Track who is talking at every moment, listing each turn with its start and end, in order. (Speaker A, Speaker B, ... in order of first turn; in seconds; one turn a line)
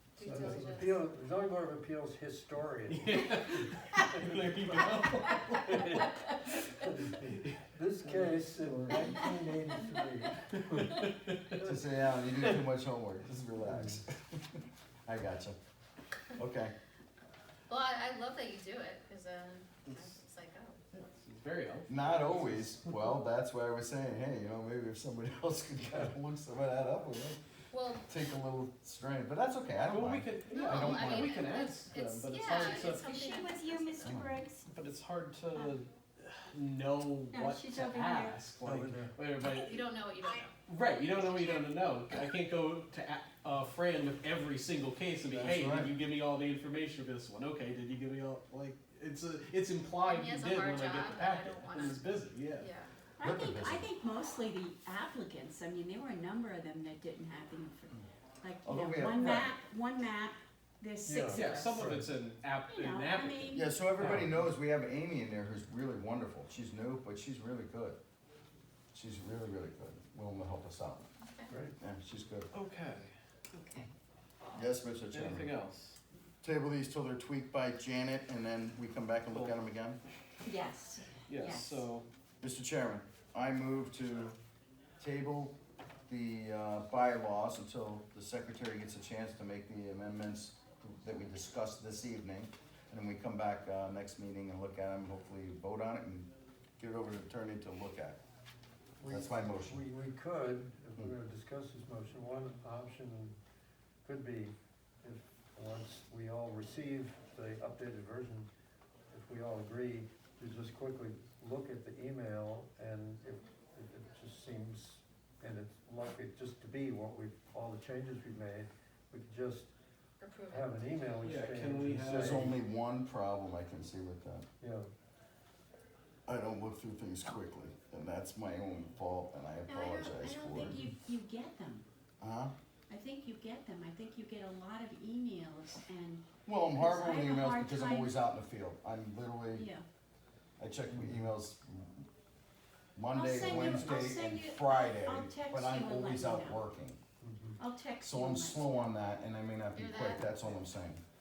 Speaker A: 0.2-1.0
Speaker B: 0.2-3.3
Speaker C: 2.9-6.1
Speaker B: 4.2-4.8
Speaker B: 5.6-6.0
Speaker B: 6.8-10.9
Speaker C: 7.0-9.2
Speaker C: 10.5-11.6
Speaker D: 11.6-15.5
Speaker B: 13.6-14.0
Speaker D: 16.4-16.7
Speaker A: 17.7-20.8
Speaker C: 19.9-20.1
Speaker C: 20.9-23.0
Speaker D: 21.9-27.4
Speaker A: 27.7-28.1
Speaker D: 28.0-31.4
Speaker C: 29.8-33.1
Speaker A: 30.5-34.2
Speaker E: 32.4-34.7
Speaker D: 34.0-34.4
Speaker C: 34.7-39.8
Speaker E: 37.3-38.4
Speaker B: 38.6-39.1
Speaker A: 39.6-40.5
Speaker C: 40.6-52.7
Speaker D: 45.3-45.9
Speaker B: 45.4-45.9
Speaker A: 50.0-52.9
Speaker E: 53.2-61.8
Speaker D: 53.2-53.9
Speaker D: 58.6-59.5
Speaker B: 61.0-62.1
Speaker C: 61.3-63.6
Speaker E: 62.7-63.7
Speaker D: 63.5-68.0
Speaker B: 64.0-64.5
Speaker D: 68.9-71.0
Speaker A: 71.2-71.5
Speaker B: 71.5-71.7
Speaker D: 71.8-72.5
Speaker C: 72.5-73.1
Speaker E: 73.5-73.9
Speaker D: 74.5-75.5
Speaker C: 75.1-76.0
Speaker D: 76.4-80.0
Speaker C: 79.3-79.5
Speaker E: 80.4-81.8
Speaker C: 81.2-82.0
Speaker D: 82.4-84.4
Speaker D: 85.0-85.5
Speaker D: 86.1-98.2
Speaker B: 99.0-103.4
Speaker D: 99.0-99.8
Speaker B: 104.0-108.5
Speaker B: 109.1-119.7
Speaker A: 120.2-120.8
Speaker B: 120.5-122.6
Speaker C: 121.2-122.5
Speaker D: 122.0-124.5
Speaker B: 124.6-124.9
Speaker D: 126.3-130.8
Speaker E: 129.7-131.8
Speaker D: 132.2-132.5
Speaker E: 132.9-138.1
Speaker D: 136.4-139.7
Speaker E: 139.5-139.8
Speaker D: 140.6-142.1
Speaker B: 140.9-141.3
Speaker D: 142.9-147.0
Speaker E: 143.1-146.6
Speaker B: 147.2-147.6
Speaker E: 147.6-148.8
Speaker D: 148.0-151.0
Speaker A: 149.7-150.2